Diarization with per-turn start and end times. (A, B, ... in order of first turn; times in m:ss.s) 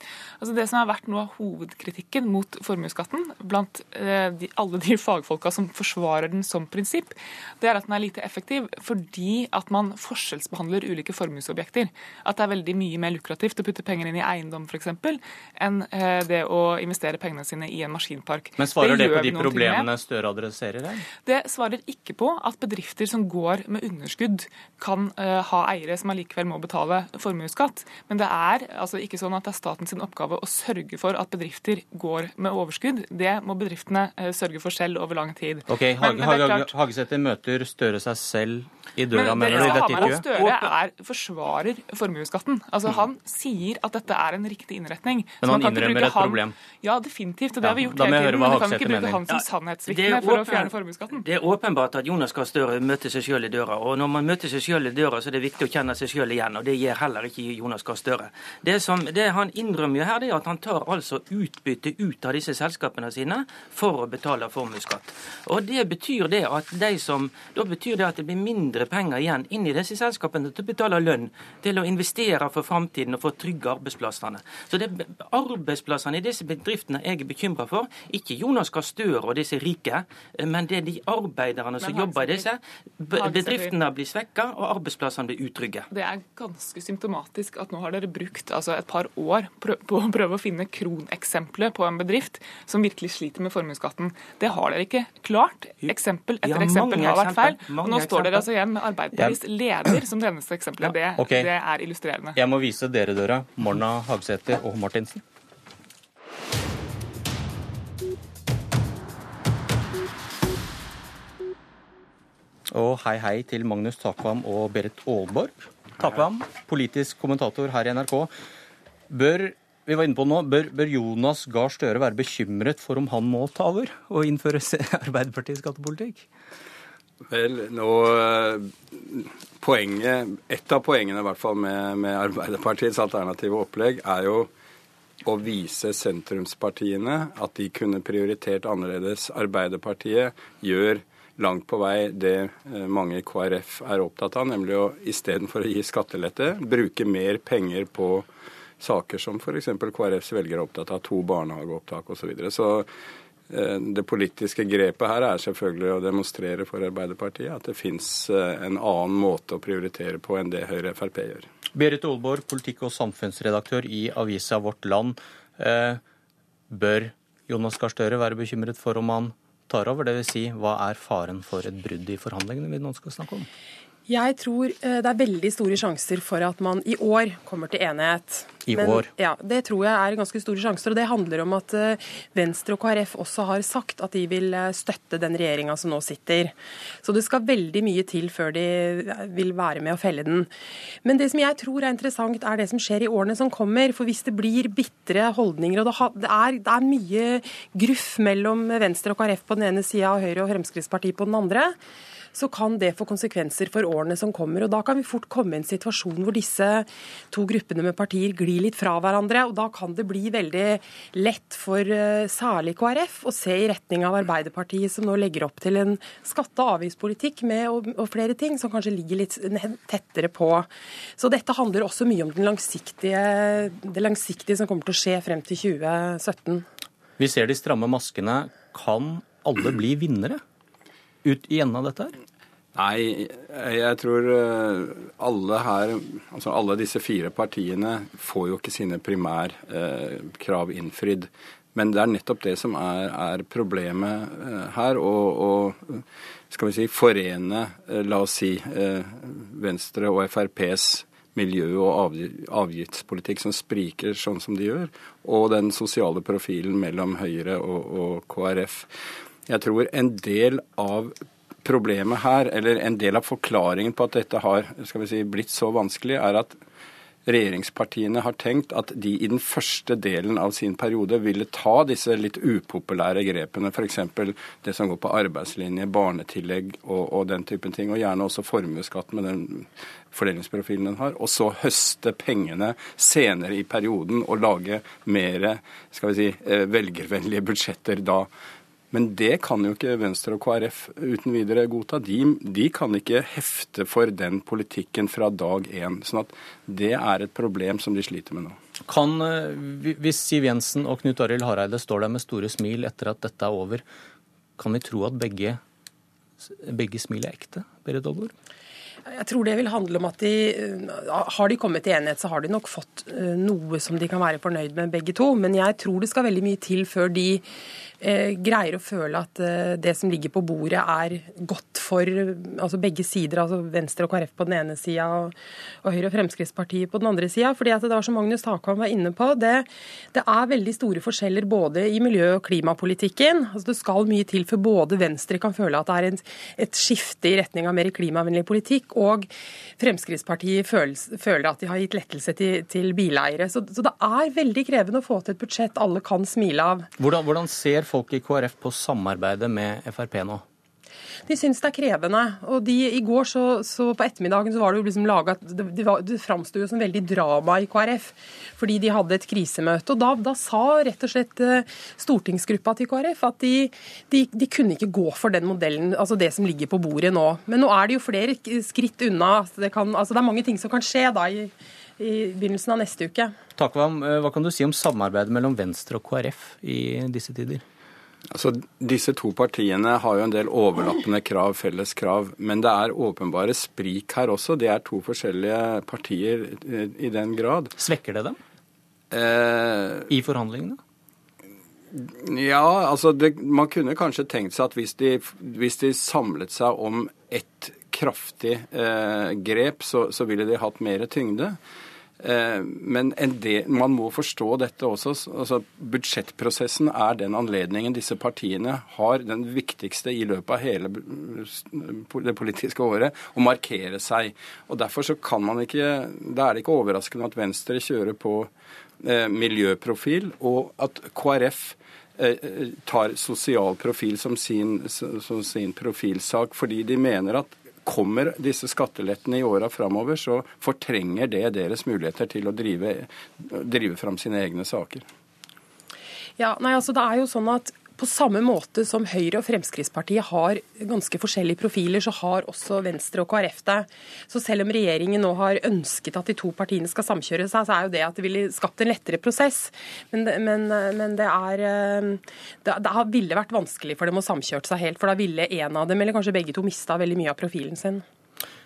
0:00.4-0:19.9 A
0:18.6-0:21.0 B
0:21.2-0:36.7 A
0:35.7-0:40.2 B
0:39.1-0:51.2 A
0:39.5-0:40.7 C
0:45.4-0:46.5 B
0:47.6-0:49.2 B
0:49.3-1:25.9 C
1:21.8-1:22.5 A
1:23.1-1:23.8 A
1:25.9-1:42.4 A
1:35.8-1:38.5 C
1:39.1-1:39.4 B
1:41.2-1:41.5 B
1:42.4-1:45.2 B
1:52.7-1:58.3 B
1:59.1-2:06.2 B
2:07.3-2:14.5 D
2:15.2-2:28.3 D
2:28.8-2:32.9 D
2:33.5-2:41.5 D
2:41.7-2:46.0 B
2:46.7-2:53.5 B
2:54.1-3:10.5 E
2:58.7-2:59.1 B
3:11.0-3:21.7 E
3:22.3-3:46.6 E
3:47.2-3:50.4 B
3:51.2-3:52.2 B
3:52.7-4:18.9 D
4:19.5-4:26.6 D
4:27.2-4:48.3 D
4:48.9-4:58.6 D
4:58.8-5:03.8 B
5:04.6-5:05.6 B
5:06.4-5:08.3 B
5:09.1-5:17.4 E
5:18.0-5:46.9 E
5:47.0-5:50.4 B
5:51.2-6:13.3 E
6:13.6-6:17.6 B
6:18.3-6:27.8 D
6:27.8-6:28.4 B
6:29.1-6:30.1 D
6:30.1-6:30.8 B
6:31.9-6:41.6 D
6:42.2-6:58.5 D
6:59.0-7:15.0 D
7:16.4-7:38.0 E